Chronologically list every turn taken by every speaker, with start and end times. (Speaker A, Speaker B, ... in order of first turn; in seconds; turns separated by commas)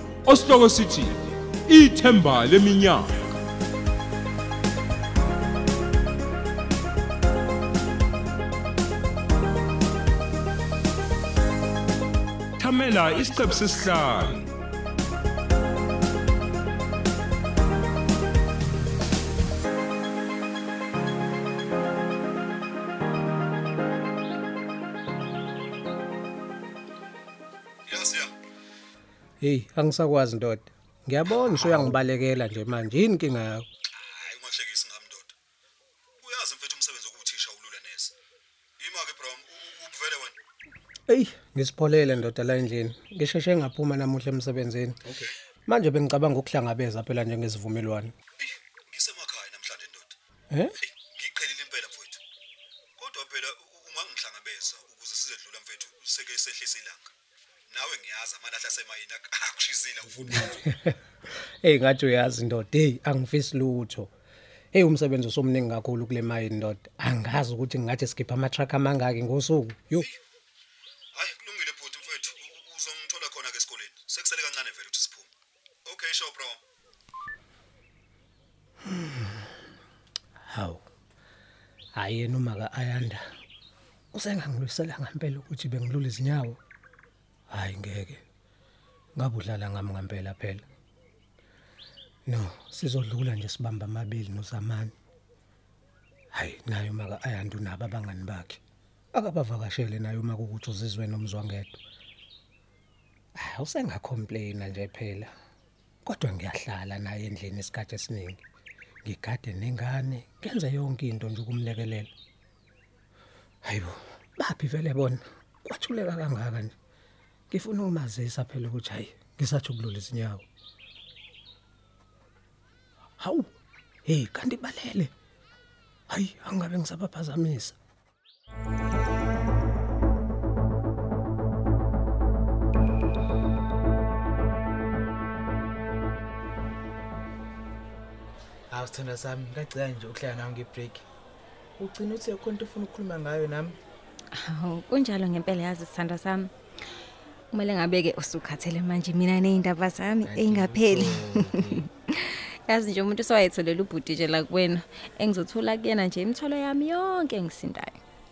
Speaker A: 0.2-3.1, Speaker A: 12.6-14.5, Speaker B: 27.9-28.3, Speaker C: 29.4-33.6, Speaker B: 34.0-35.3, Speaker B: 36.2-38.1, Speaker B: 38.8-40.4, Speaker C: 41.1-45.0, Speaker C: 45.7-48.1, Speaker B: 48.4-50.2, Speaker B: 50.8-52.2, Speaker B: 53.0-57.1, Speaker B: 57.7-60.6, Speaker C: 60.5-61.0, Speaker C: 61.6-64.1, Speaker C: 64.7-70.1, Speaker B: 71.2-75.3, Speaker B: 75.9-76.6, Speaker C: 78.9-79.5, Speaker C: 80.5-80.8, Speaker C: 82.0-83.2, Speaker C: 84.1-86.6, Speaker C: 87.5-88.2, Speaker C: 89.2-90.6, Speaker C: 92.3-94.9, Speaker C: 96.3-98.6, Speaker C: 99.1-101.8, Speaker C: 103.4-105.3, Speaker C: 106.0-108.4, Speaker C: 109.0-112.1, Speaker C: 113.6-116.7, Speaker C: 117.5-120.5, Speaker C: 123.2-123.5, Speaker C: 124.1-125.1, Speaker C: 126.1-127.8, Speaker D: 138.7-141.1, Speaker D: 141.8-143.8, Speaker E: 144.3-146.5, Speaker E: 147.5-158.0, Speaker D: 150.2-151.8